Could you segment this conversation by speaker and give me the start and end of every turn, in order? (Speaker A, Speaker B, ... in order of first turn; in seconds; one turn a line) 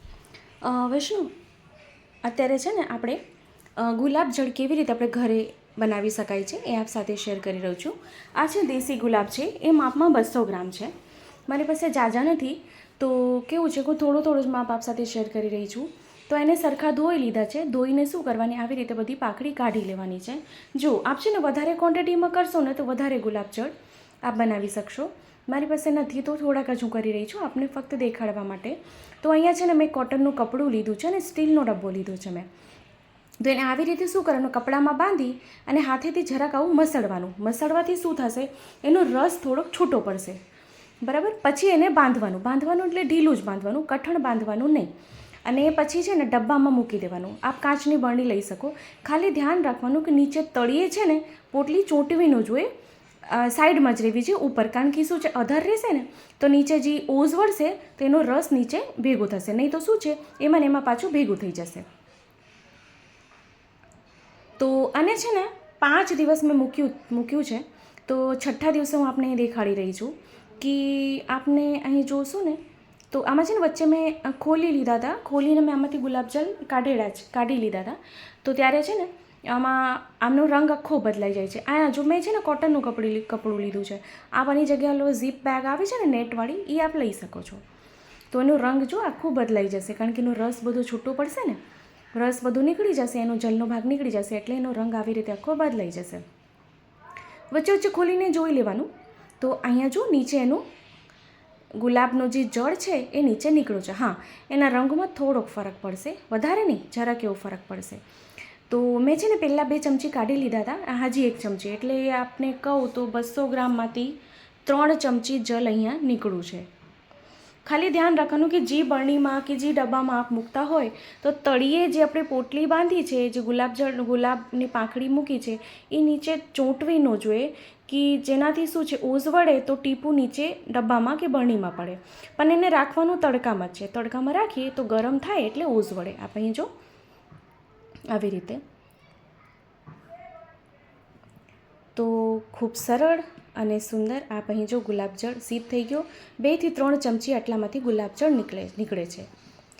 Speaker A: 0.6-1.3
Speaker A: 2.2-3.2
Speaker A: 3.8-10.9
Speaker A: 11.5-32.5
Speaker A: 33.4-40.4
Speaker A: 41.0-44.9
Speaker A: 45.4-52.7
Speaker A: 53.2-61.9
Speaker A: 64.6-72.6
Speaker A: 73.1-87.6
Speaker A: 88.3-91.6
Speaker A: 92.1-96.2
Speaker A: 97.5-98.9
Speaker A: 99.4-100.6
Speaker A: 101.8-108.0
Speaker A: 108.7-114.1
Speaker A: 114.6-116.7
Speaker A: 117.6-136.7
Speaker A: 138.1-138.6
Speaker A: 141.9-149.3